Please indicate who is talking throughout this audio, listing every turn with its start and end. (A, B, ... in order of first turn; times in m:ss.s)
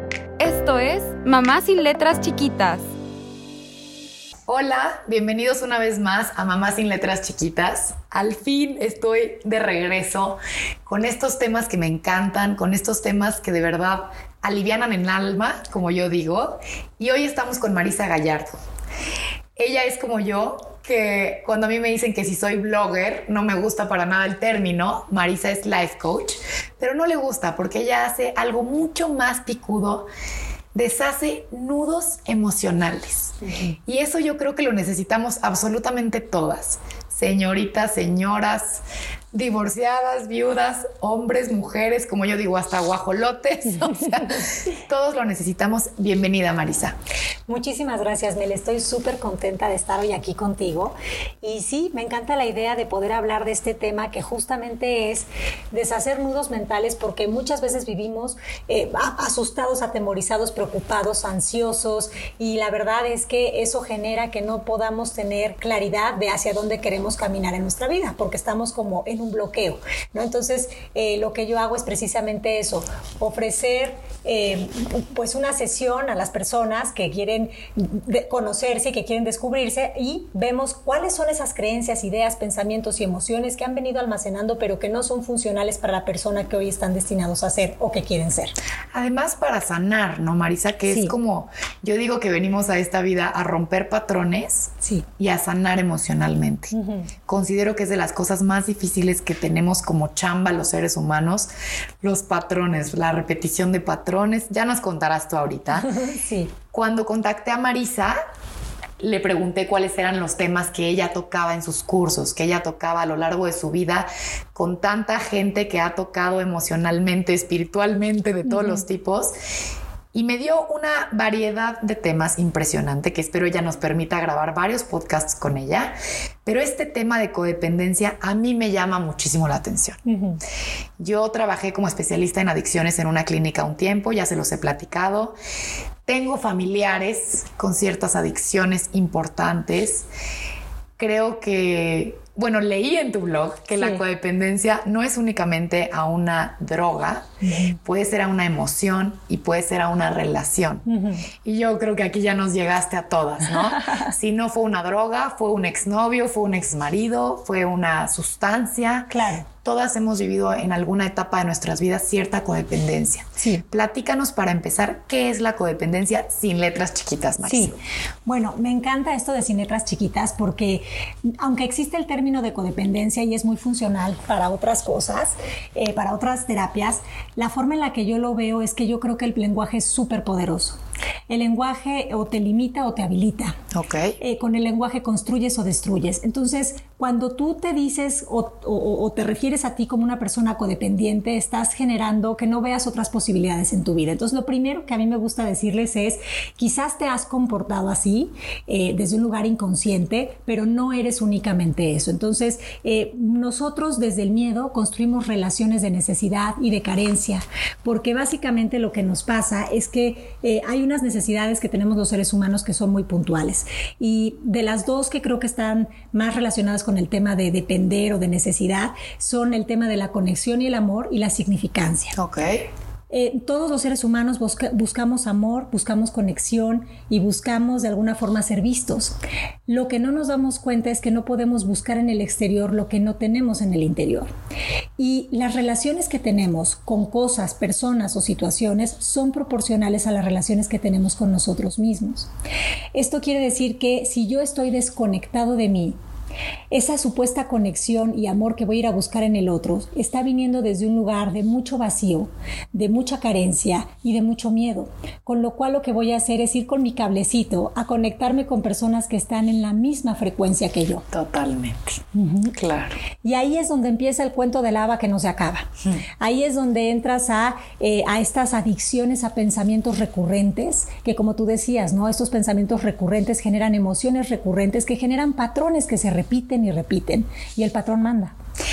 0:00.4-0:02.9 A
0:04.5-0:18.6 B
0:19.6-0:30.1 B
0:30.7-0:47.0 B
0:47.5-1:28.6 C
1:28.9-1:36.7 B
1:36.7-1:37.1 C
1:37.2-1:41.5 B
1:42.0-1:45.9 B
1:45.7-1:46.5 C
1:46.7-1:48.2 B
1:49.0-1:59.3 B
2:00.1-2:05.9 B
2:06.4-2:10.0 B
2:10.0-2:10.4 C
2:11.0-2:15.4 B
2:16.0-2:20.0 B
2:21.0-2:30.8 B
2:27.4-2:27.8 C
2:30.9-2:31.2 C
2:31.4-2:39.1 B
2:39.1-2:39.4 C
2:39.6-2:47.8 B
2:43.4-2:43.6 C
2:47.4-2:47.7 C
2:48.2-3:03.6 C
3:03.7-3:04.2 B
3:04.2-3:42.1 C
3:42.2-3:42.7 B
3:43.1-3:49.1 C
3:49.7-3:54.3 C
3:55.0-4:02.3 C
4:02.9-4:06.0 C
4:06.7-4:21.0 C
4:21.1-4:23.0 B
4:22.1-4:22.6 C
4:23.2-4:25.7 C
4:26.2-4:38.3 C